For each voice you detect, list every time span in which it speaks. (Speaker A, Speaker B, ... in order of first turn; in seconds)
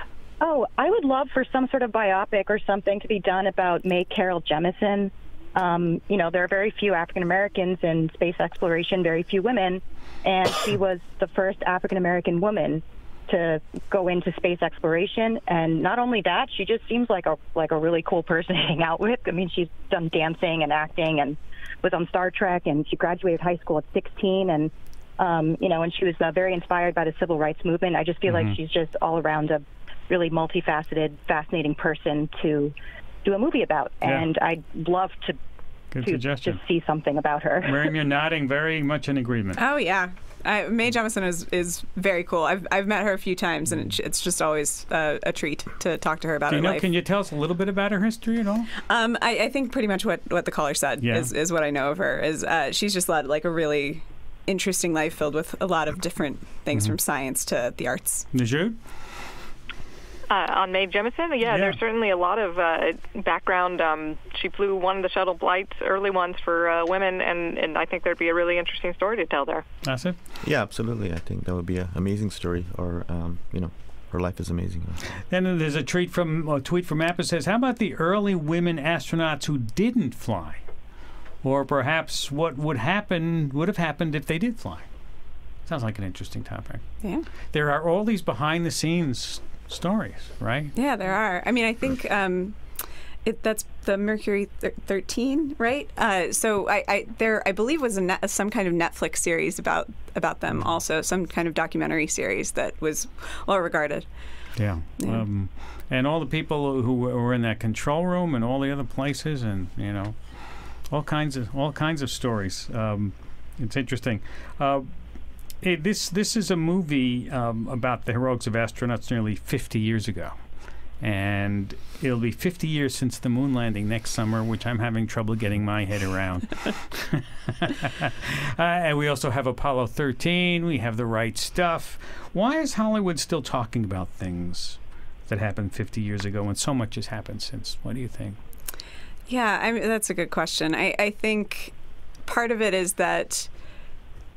Speaker A: 0.4-32.7, 33.2-35.4, 36.0-37.8
Speaker B: 28.3-28.6, 34.0-34.3, 35.9-36.6, 37.6-39.6, 46.5-48.7, 51.0-51.3, 58.3-58.8, 61.5-61.8, 69.8-70.2, 75.3-80.6, 81.4-84.9, 85.7-86.8, 87.5-90.7, 104.5-114.9, 115.6-120.4, 121.0-138.4
Speaker C: 39.5-46.9, 48.9-58.3, 90.7-104.1, 105.0-105.2, 139.3-141.7, 142.2-143.5
Speaker D: 60.3-69.6
Speaker E: 70.4-75.0